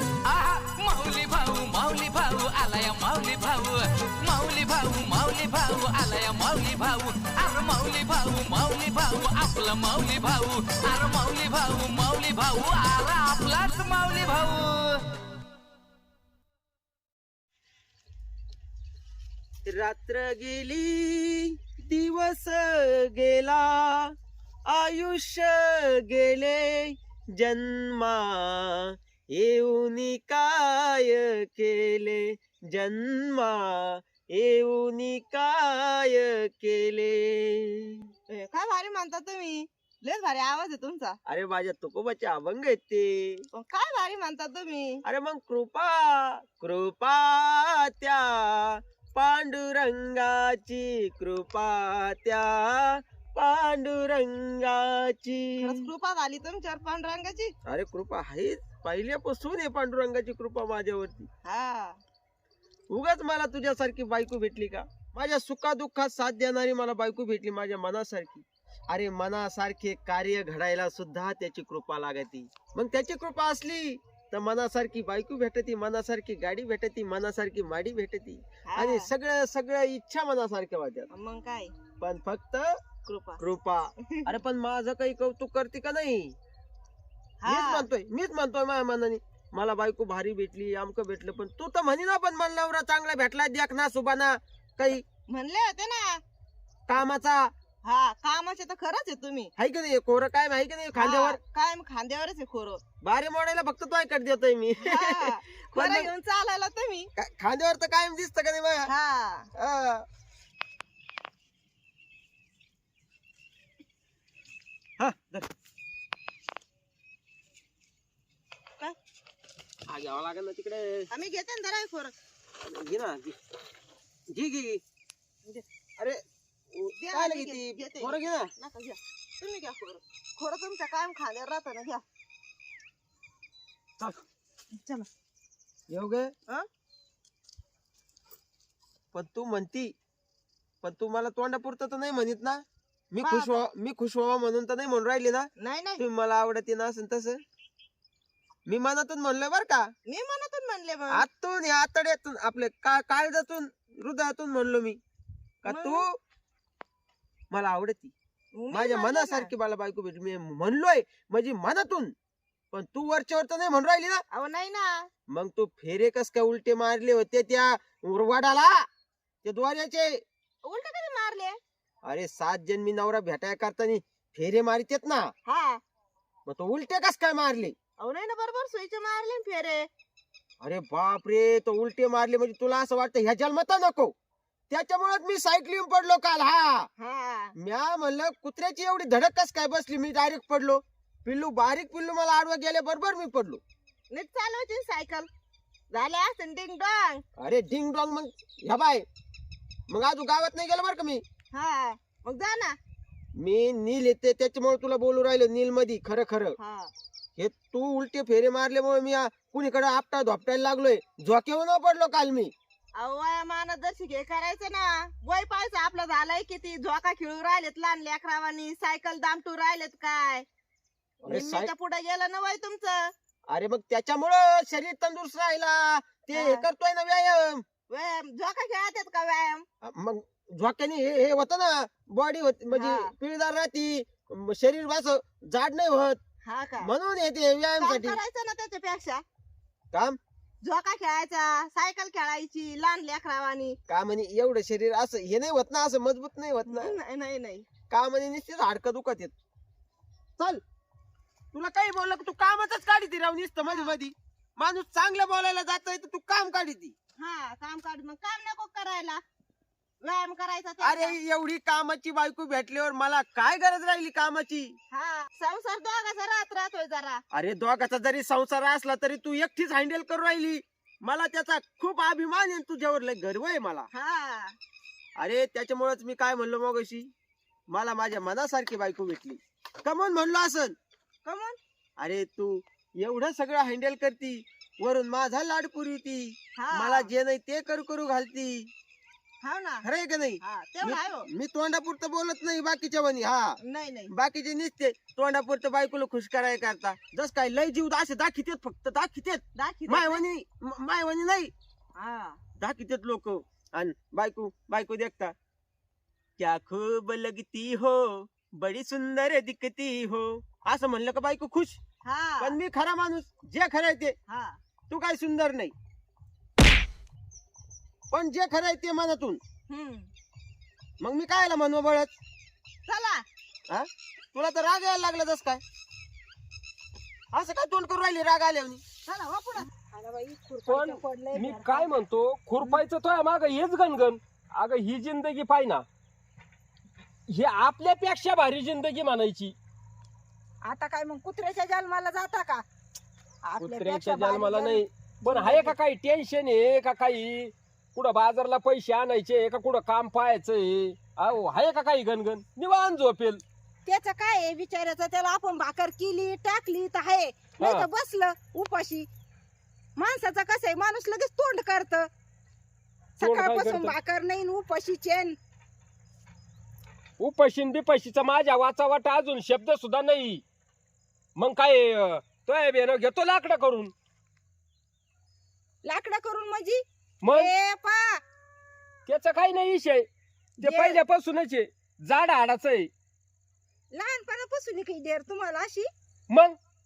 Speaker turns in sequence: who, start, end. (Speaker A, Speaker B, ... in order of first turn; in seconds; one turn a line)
Speaker A: 0.2-15.0
Speaker B: 19.6-24.1
Speaker B: 24.7-38.0
Speaker C: 38.3-41.2
Speaker B: 41.2-43.4
Speaker C: 43.5-45.0
Speaker B: 45.0-55.9
Speaker C: 55.6-57.5
Speaker B: 57.6-61.3
Speaker C: 61.4-62.0
Speaker B: 62.9-81.1
Speaker C: 78.7-79.1
Speaker C: 81.1-81.8
Speaker B: 82.0-82.8
Speaker C: 83.0-83.4
Speaker B: 83.4-86.3
Speaker C: 87.4-87.9
Speaker B: 87.4-95.0
Speaker C: 95.3-96.2
Speaker B: 96.9-97.5
Speaker C: 97.8-99.5
Speaker B: 99.6-101.4
Speaker C: 100.9-102.8
Speaker B: 103.0-106.1
Speaker C: 104.8-107.1
Speaker B: 107.2-108.9
Speaker C: 108.8-109.5
Speaker B: 109.5-110.0
Speaker B: 115.0-115.5
Speaker B: 119.9-121.1
Speaker C: 121.1-122.1
Speaker B: 122.7-123.3
Speaker B: 124.3-124.8
Speaker B: 125.5-126.2
Speaker B: 126.7-128.5
Speaker C: 127.0-132.0
Speaker C: 134.7-135.1
Speaker B: 135.9-136.3
Speaker B: 139.1-139.9
Speaker B: 140.8-147.4
Speaker C: 143.2-143.6
Speaker C: 145.6-146.0
Speaker B: 148.7-149.9
Speaker C: 150.1-151.2
Speaker B: 151.1-155.0
Speaker B: 155.6-156.2
Speaker C: 155.7-156.0
Speaker B: 157.5-158.1
Speaker C: 158.5-159.5
Speaker B: 158.7-162.1
Speaker B: 162.7-164.2
Speaker C: 164.3-165.1
Speaker B: 165.3-168.8
Speaker B: 169.4-170.2
Speaker C: 170.6-171.6
Speaker B: 172.0-175.3
Speaker C: 175.4-175.8
Speaker B: 176.4-177.7
Speaker C: 178.0-179.9
Speaker B: 180.6-184.1
Speaker B: 184.7-186.9
Speaker C: 187.0-187.5
Speaker B: 187.5-193.6
Speaker C: 194.1-195.3
Speaker C: 195.9-197.2
Speaker B: 197.4-199.0
Speaker B: 199.9-201.2
Speaker C: 201.5-202.8
Speaker B: 203.3-206.6
Speaker C: 206.6-206.9
Speaker B: 207.4-212.5
Speaker C: 212.9-220.4
Speaker B: 221.2-221.7
Speaker C: 221.2-223.1
Speaker B: 223.5-227.6
Speaker C: 226.3-226.6
Speaker C: 227.9-229.7
Speaker B: 229.8-236.2
Speaker C: 232.7-233.1
Speaker C: 236.4-236.9
Speaker B: 236.8-238.2
Speaker C: 237.8-239.2
Speaker B: 239.9-240.2
Speaker C: 240.6-243.8
Speaker B: 243.9-246.9
Speaker C: 246.7-247.7
Speaker B: 247.9-249.3
Speaker B: 251.5-256.9
Speaker C: 257.2-259.2
Speaker C: 260.0-261.1
Speaker B: 260.8-264.7
Speaker C: 264.9-267.2
Speaker B: 267.3-273.9
Speaker C: 273.9-274.6
Speaker B: 275.2-277.1
Speaker B: 277.7-280.8
Speaker C: 281.2-281.6
Speaker B: 282.0-288.7
Speaker C: 286.6-287.1
Speaker C: 289.4-289.8
Speaker B: 289.8-293.6
Speaker C: 290.4-291.3
Speaker C: 293.6-294.1
Speaker B: 294.1-301.5
Speaker C: 299.5-300.2
Speaker C: 301.9-302.4
Speaker B: 302.6-305.3
Speaker B: 306.4-311.8
Speaker C: 312.0-312.6
Speaker B: 312.4-314.1
Speaker C: 314.3-314.6
Speaker B: 314.9-315.7
Speaker B: 318.1-319.4
Speaker C: 319.7-320.1
Speaker B: 321.0-322.1
Speaker C: 322.9-323.2
Speaker B: 323.7-325.6
Speaker B: 327.3-328.8
Speaker C: 329.1-329.7
Speaker D: 329.9-331.9
Speaker E: 330.7-335.8
Speaker E: 337.3-339.5
Speaker D: 340.6-342.6
Speaker D: 343.4-345.7
Speaker E: 343.6-353.4
Speaker D: 353.8-359.1
Speaker E: 357.6-357.9
Speaker D: 359.9-362.1
Speaker D: 363.2-365.4
Speaker E: 363.2-363.9
Speaker E: 367.2-370.4
Speaker E: 371.4-373.9
Speaker D: 375.8-378.2
Speaker E: 377.2-377.5
Speaker E: 379.1-380.1
Speaker E: 380.6-382.9
Speaker D: 380.6-381.0
Speaker D: 383.9-385.9
Speaker E: 386.3-386.5